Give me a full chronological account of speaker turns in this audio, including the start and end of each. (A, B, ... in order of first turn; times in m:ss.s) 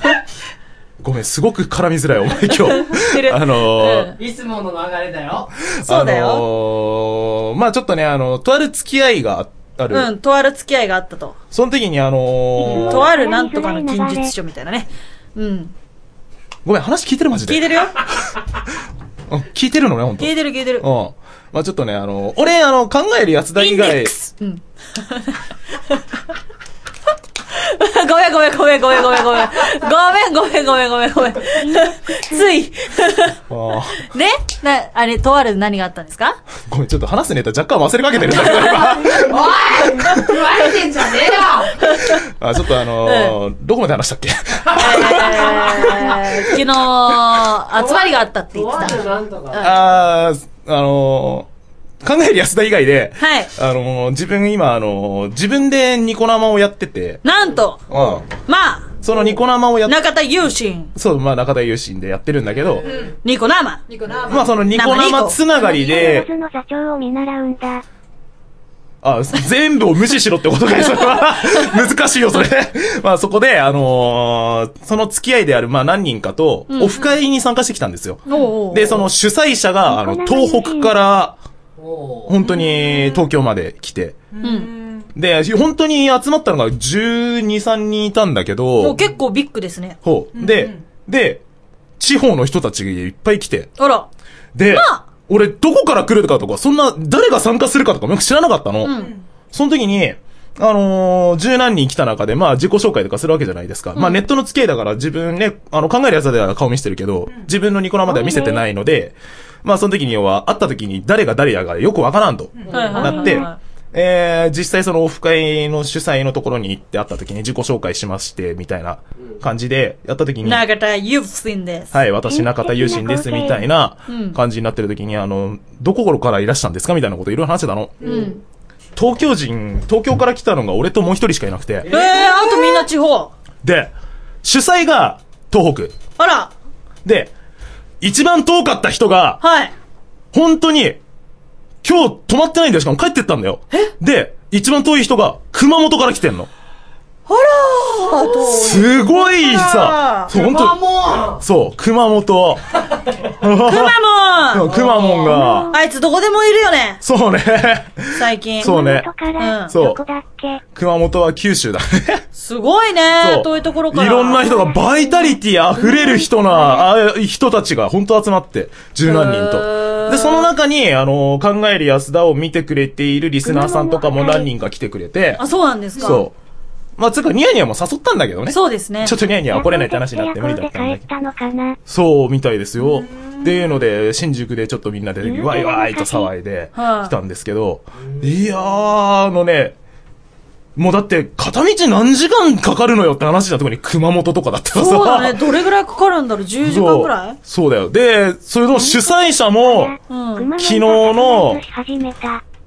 0:01.0-0:04.1 A
0:02.6-0:04.2 B
0:04.2-0:05.5 C
0:05.8-0:10.1 A
0:05.8-0:06.4 B
0:09.9-0:11.4 B
0:11.5-0:13.1 A
0:12.6-0:15.7 B
0:13.2-0:14.3 D
0:16.6-0:17.8 A
0:17.4-0:18.0 B
0:19.3-0:24.1 A
0:20.2-0:20.8 B
0:23.6-0:26.0 B
0:27.5-0:33.4 B
0:33.5-0:34.1 A
0:34.0-0:36.4 B
0:36.7-0:39.5 A
0:38.4-0:39.2 B
0:39.2-0:41.8 C
0:39.9-0:40.4 B
0:41.8-0:42.2 B
0:42.2-0:46.3 A
0:43.0-0:43.4 B
0:44.7-0:49.0 B
0:47.8-0:49.7 C
0:49.6-0:51.5 A
0:52.0-0:57.2 A
0:53.2-0:53.5 B
0:57.2-0:57.8 B
0:57.9-0:58.3 A
0:58.4-0:58.9 B
0:59.0-1:00.0 A
0:59.8-1:00.9 B
1:01.0-1:02.9 A
1:03.1-1:03.8 B
1:03.9-1:04.5 C
1:04.3-1:06.3 A
1:04.6-1:05.4 B
1:05.6-1:07.8 D
1:09.0-1:21.4 A
1:16.7-1:17.2 B
1:18.3-1:19.0 B
1:19.9-1:20.9 D
1:21.8-1:22.4 C
1:22.3-1:24.2 A
1:24.4-1:24.8 B
1:25.2-1:29.0 A
1:28.8-1:30.0 B
1:30.0-1:31.4 A
1:32.0-1:33.7 A
1:33.8-1:34.1 B
1:34.6-2:00.6 A
1:34.7-1:35.0 B
1:38.8-1:39.2 B
1:44.0-1:44.2 B
1:48.3-1:48.6 D
1:52.7-1:53.6 B
2:00.4-2:01.9 B
2:01.9-2:08.2 A
2:02.3-2:03.6 D
2:04.1-2:04.4 B
2:08.0-2:08.4 B
2:09.0-2:11.9 A
2:11.8-2:12.9 C
2:11.9-2:13.3 B
2:13.6-2:13.9 A
2:14.4-2:15.9 A
2:16.2-2:16.5 B
2:17.0-2:17.3 A
2:18.0-2:19.4 A
2:19.4-2:19.7 B
2:20.3-2:21.0 A
2:21.8-2:26.5 A
2:27.3-2:30.3 B
2:28.4-2:34.0 A
2:30.3-2:31.4 C
2:33.6-2:34.7 B
2:34.5-2:35.7 A
2:34.8-2:35.2 C
2:35.7-2:37.0 B
2:37.0-2:39.1 A
2:38.2-2:39.8 B
2:38.7-2:40.6 D
2:39.7-2:40.0 A
2:40.7-2:42.2 A
2:42.4-2:44.6 B
2:43.2-2:55.4 A
2:49.0-2:50.5 B
2:53.4-2:54.5 D
2:55.4-2:56.3 B
2:56.0-2:56.3 A
2:57.0-3:01.0 A
2:58.5-2:59.2 B
2:59.5-3:01.8 D
3:01.9-3:09.8 A
3:05.2-3:06.3 D
3:06.8-3:07.1 B
3:10.8-3:15.4 A
3:14.7-3:17.4 B
3:16.6-3:20.0 A
3:18.8-3:22.4 D
3:20.1-3:20.5 B
3:20.6-3:21.6 A